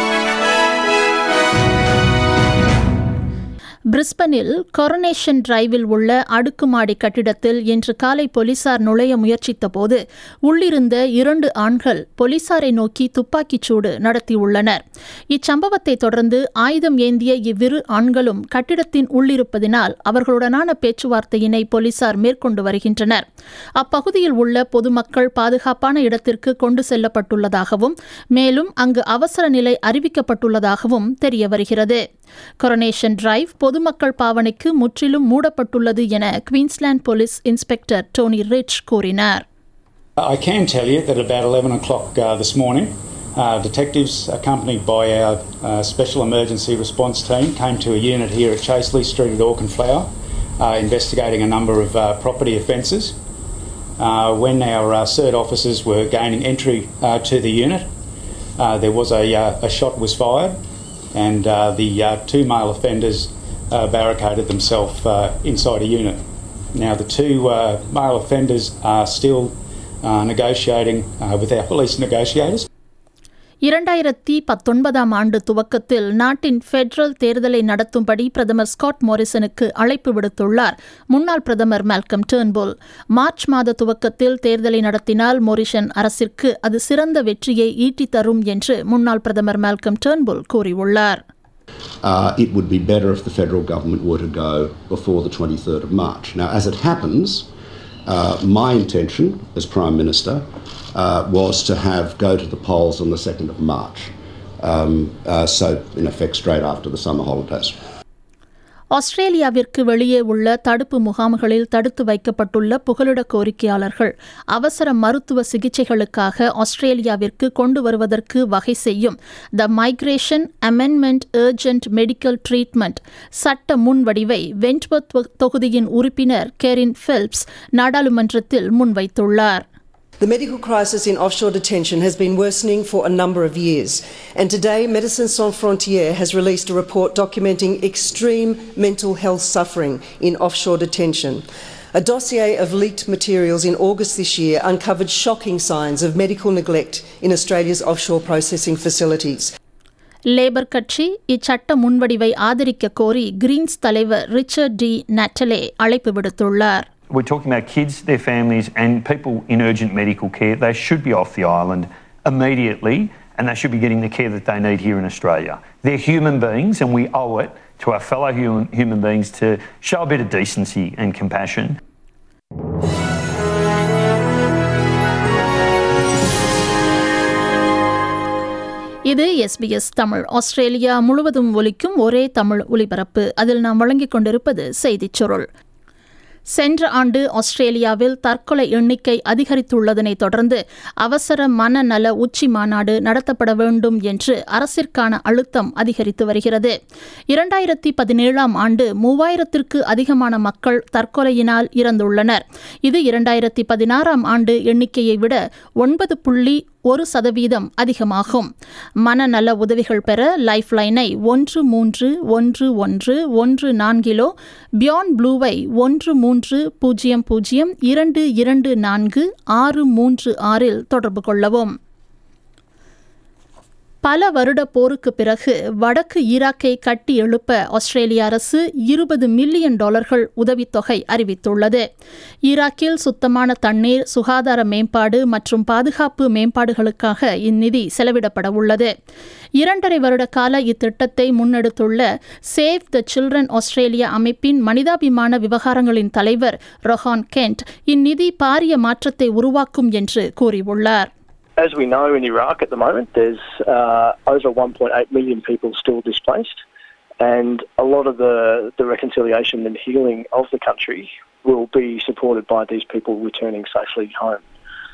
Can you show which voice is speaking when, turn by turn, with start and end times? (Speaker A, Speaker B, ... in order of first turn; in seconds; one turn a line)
Speaker A: 3.9-23.2
Speaker A: 23.8-32.0
Speaker A: 32.6-39.4
Speaker B: 40.2-53.1
Speaker B: 54.0-57.9
Speaker B: 58.6-60.6
Speaker B: 61.1-66.2
Speaker B: 66.7-72.7
Speaker A: 73.6-91.2
Speaker C: 92.0-97.5
Speaker C: 98.0-100.4
Speaker C: 100.9-107.8
Speaker A: 108.9-129.6
Speaker D: 130.2-149.5
Speaker A: 150.3-156.9
Speaker E: 157.1-171.8
Speaker A: 179.1-185.4
Speaker A: 186.5-196.7
Speaker A: 197.3-208.5
Speaker A: 209.0-221.7
Speaker A: 224.0-231.8
Speaker A: 232.5-238.9
Speaker A: 239.6-251.1
Speaker F: 251.6-256.6
Speaker F: 257.2-264.4